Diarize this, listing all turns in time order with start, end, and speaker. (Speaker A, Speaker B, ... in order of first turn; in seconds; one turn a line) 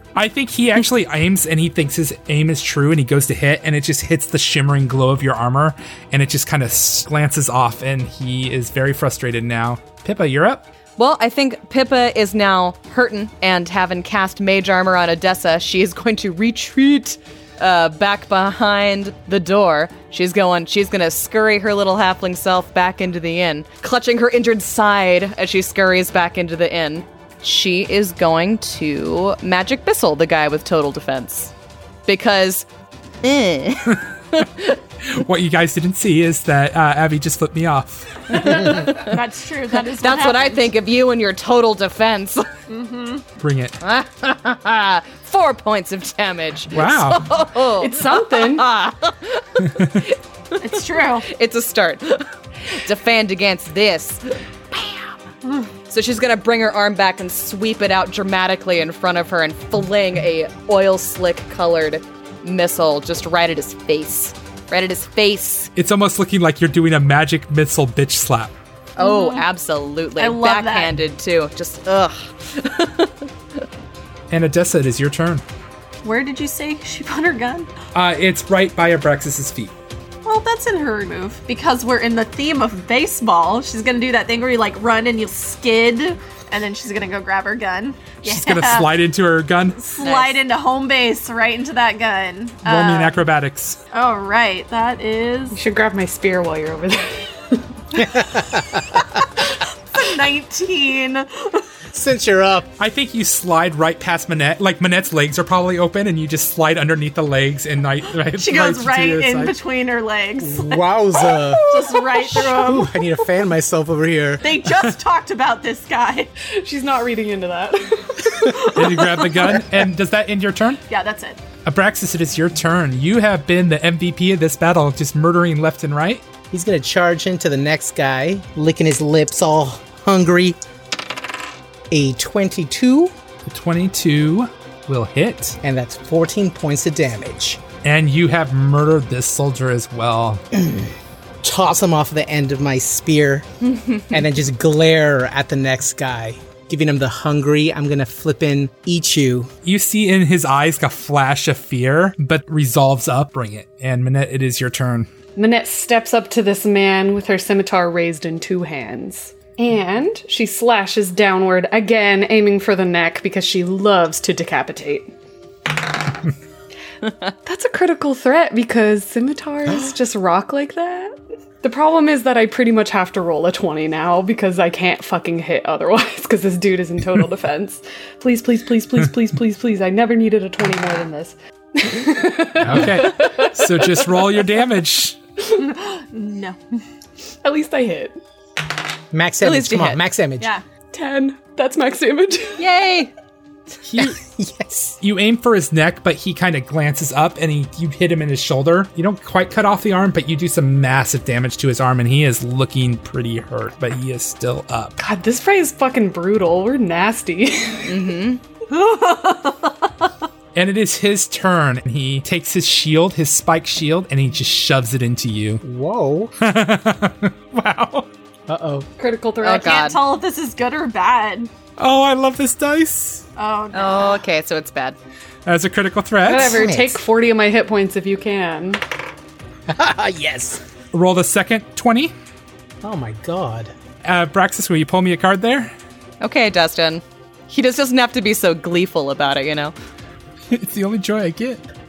Speaker A: 0.1-10.6
Speaker B: 11.0-31.5
Speaker B: 32.1-32.7
Speaker B: 33.2-34.7
Speaker A: 33.9-34.4
Speaker A: 35.0-38.7
Speaker B: 38.3-39.2
Speaker C: 38.4-40.7
Speaker B: 39.7-42.5
Speaker C: 42.7-43.2
Speaker A: 43.4-43.8
Speaker B: 43.8-55.2
Speaker A: 46.7-47.3
Speaker D: 47.8-48.7
Speaker A: 49.7-50.0
Speaker C: 50.6-51.3
Speaker B: 55.9-65.7
Speaker A: 65.8-68.5
Speaker B: 69.0-73.3
Speaker C: 69.0-69.5
Speaker C: 70.2-70.9
Speaker A: 74.3-75.4
Speaker C: 76.0-77.7
Speaker A: 77.9-79.7
Speaker C: 80.2-89.0
Speaker A: 88.2-89.8
Speaker C: 89.8-93.2
Speaker B: 90.0-90.4
Speaker A: 92.6-93.8
Speaker C: 93.9-95.6
Speaker D: 95.5-98.2
Speaker E: 98.0-98.8
Speaker C: 99.9-101.6
Speaker E: 101.9-102.7
Speaker A: 102.8-109.6
Speaker C: 108.3-113.0
Speaker E: 110.4-114.6
Speaker D: 111.8-112.3
Speaker C: 114.4-116.3
Speaker D: 116.6-119.2
Speaker A: 118.6-120.8
Speaker C: 120.9-121.4
Speaker A: 121.7-126.2
Speaker E: 126.5-130.6
Speaker E: 131.9-133.1
Speaker A: 133.4-135.6
Speaker E: 135.6-137.6
Speaker A: 137.8-140.4
Speaker E: 140.6-143.5
Speaker E: 144.1-149.5
Speaker A: 149.6-155.1
Speaker D: 155.4-165.1
Speaker D: 167.4-184.3
Speaker A: 182.6-185.2
Speaker C: 185.5-186.6
Speaker D: 187.4-188.2
Speaker E: 189.1-190.5
Speaker B: 189.4-190.0
Speaker D: 190.9-192.6
Speaker B: 192.6-193.1
Speaker A: 193.9-194.2
Speaker E: 194.0-195.0
Speaker A: 195.0-204.9
Speaker D: 205.0-207.9
Speaker B: 207.8-208.4
Speaker C: 208.7-209.7
Speaker A: 210.6-215.6
Speaker E: 215.6-216.3
Speaker A: 216.4-218.1
Speaker E: 218.5-218.9
Speaker D: 219.0-219.8
Speaker B: 219.4-220.0
Speaker C: 219.6-221.5
Speaker A: 221.8-223.2
Speaker C: 223.4-224.2
Speaker B: 223.7-225.0
Speaker A: 225.5-226.6
Speaker D: 226.2-228.8
Speaker E: 226.4-227.0
Speaker E: 229.7-230.6
Speaker A: 230.9-232.1
Speaker E: 232.8-233.7
Speaker A: 234.0-235.7
Speaker B: 236.2-239.7
Speaker A: 240.5-241.6